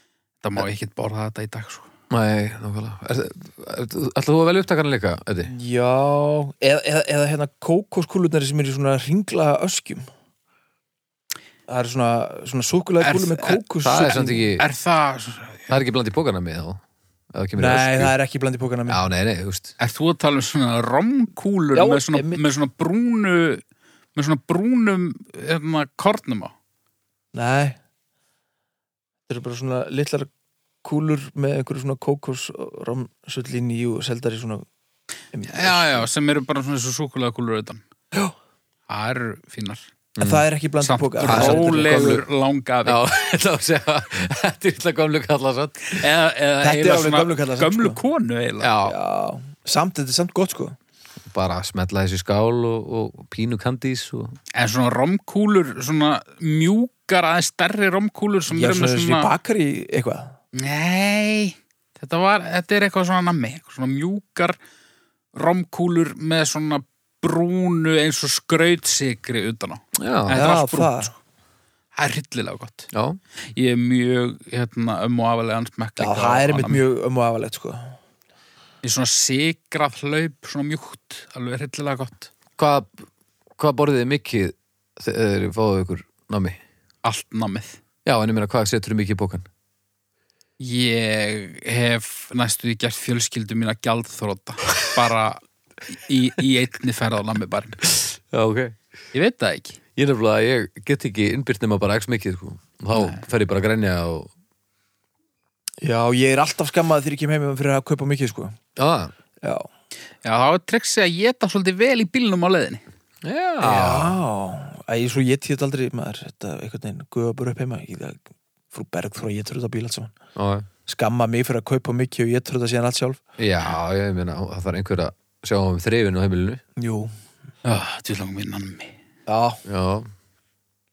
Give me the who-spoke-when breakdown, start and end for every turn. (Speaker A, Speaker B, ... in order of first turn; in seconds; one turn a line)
Speaker A: 0.4-1.9
Speaker B: 2.1-5.5
Speaker C: 5.5-10.1
Speaker C: 11.7-14.4
Speaker A: 13.0-13.6
Speaker B: 13.8-14.7
Speaker A: 14.6-15.8
Speaker B: 15.7-16.8
Speaker B: 17.3-18.1
Speaker C: 17.6-19.0
Speaker B: 18.9-19.7
Speaker A: 19.8-23.6
Speaker C: 21.7-22.4
Speaker A: 24.1-26.5
Speaker C: 27.3-27.8
Speaker C: 29.3-30.3
Speaker C: 30.8-34.7
Speaker C: 35.3-36.0
Speaker A: 35.5-37.8
Speaker A: 38.9-39.9
Speaker B: 40.2-40.4
Speaker C: 40.2-42.2
Speaker A: 40.8-43.0
Speaker B: 41.2-42.2
Speaker B: 42.9-46.0
Speaker A: 45.9-48.7
Speaker C: 46.6-48.0
Speaker B: 48.6-49.0
Speaker C: 48.9-50.8
Speaker B: 51.3-54.4
Speaker A: 54.5-59.3
Speaker C: 58.5-60.4
Speaker A: 60.5-64.6
Speaker A: 65.3-71.2
Speaker B: 70.0-70.4
Speaker C: 70.3-71.1
Speaker A: 72.0-72.9
Speaker B: 72.9-73.2
Speaker A: 73.4-76.8
Speaker C: 76.0-78.0
Speaker A: 78.8-82.3
Speaker B: 82.6-83.0
Speaker B: 83.6-86.6
Speaker A: 87.0-87.8
Speaker B: 88.0-89.5
Speaker A: 90.6-97.8
Speaker B: 97.8-98.8
Speaker A: 99.1-99.8
Speaker B: 100.0-104.3
Speaker A: 102.9-103.2
Speaker C: 105.8-108.6
Speaker B: 108.8-109.1
Speaker C: 109.4-109.7
Speaker A: 110.2-112.8
Speaker B: 113.2-114.2
Speaker C: 113.6-118.2
Speaker C: 118.7-120.1
Speaker B: 120.4-120.7
Speaker C: 120.9-123.2
Speaker B: 123.4-126.6
Speaker C: 126.8-127.1
Speaker A: 127.7-128.9
Speaker C: 129.3-129.6
Speaker B: 129.7-130.1